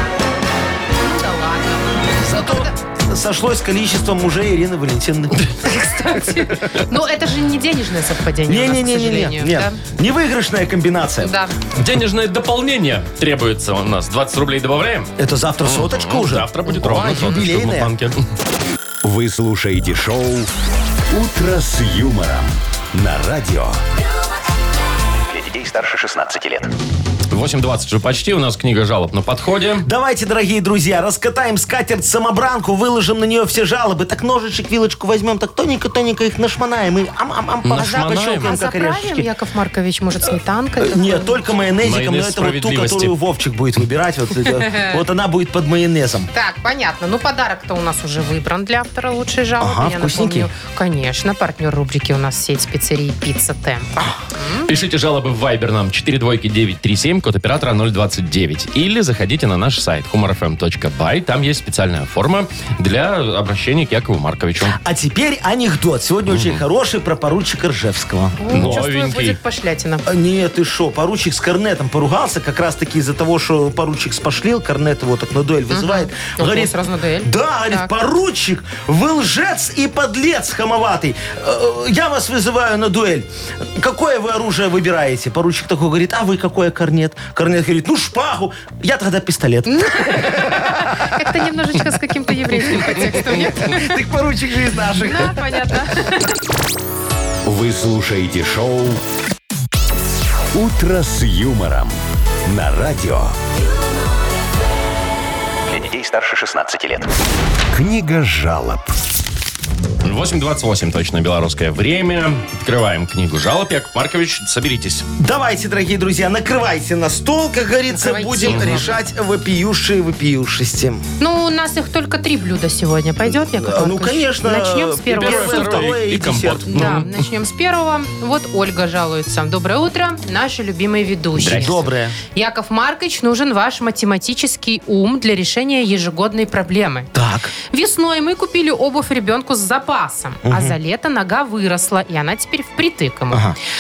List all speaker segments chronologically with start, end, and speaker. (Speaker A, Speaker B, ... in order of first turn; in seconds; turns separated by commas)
Speaker A: 1.0-2.7, Speaker B: 2.2-5.5, Speaker A: 5.6-9.8, Speaker B: 8.5-11.3, Speaker A: 11.2-11.6, Speaker C: 11.8-15.1, Speaker B: 15.2-17.9, Speaker C: 15.6-18.2, Speaker D: 19.0-20.5, Speaker D: 21.1-23.8, Speaker E: 25.3-26.7, Speaker C: 27.3-29.9, Speaker B: 29.8-39.3, Speaker C: 37.6-38.6, Speaker A: 37.8-41.4, Speaker B: 40.8-46.3, Speaker C: 41.8-43.1, Speaker A: 44.6-45.0, Speaker A: 46.3-54.7, Speaker B: 49.6-50.5, Speaker C: 54.7-64.8, Speaker B: 64.7-68.8, Speaker C: 66.3-66.6, Speaker A: 68.4-70.1, Speaker C: 68.5-69.4, Speaker B: 70.1-91.2, Speaker A: 75.7-77.9, Speaker A: 89.7-94.0, Speaker B: 92.5-95.7, Speaker A: 95.0-96.3, Speaker D: 97.5-99.0, Speaker D: 100.5-103.4, Speaker E: 105.7-107.1, Speaker D: 107.7-108.9, Speaker C: 110.0-115.1, Speaker B: 115.2-121.0, Speaker A: 117.9-119.0, Speaker C: 118.5-118.8, Speaker A: 121.2-126.0, Speaker B: 123.6-127.0, Speaker C: 125.1-127.1, Speaker A: 126.7-131.8, Speaker C: 131.4-131.9, Speaker B: 131.4-132.2, Speaker A: 132.3-137.1, Speaker B: 137.1-137.5, Speaker A: 137.7-143.5, Speaker B: 140.4-140.8, Speaker B: 143.3-143.6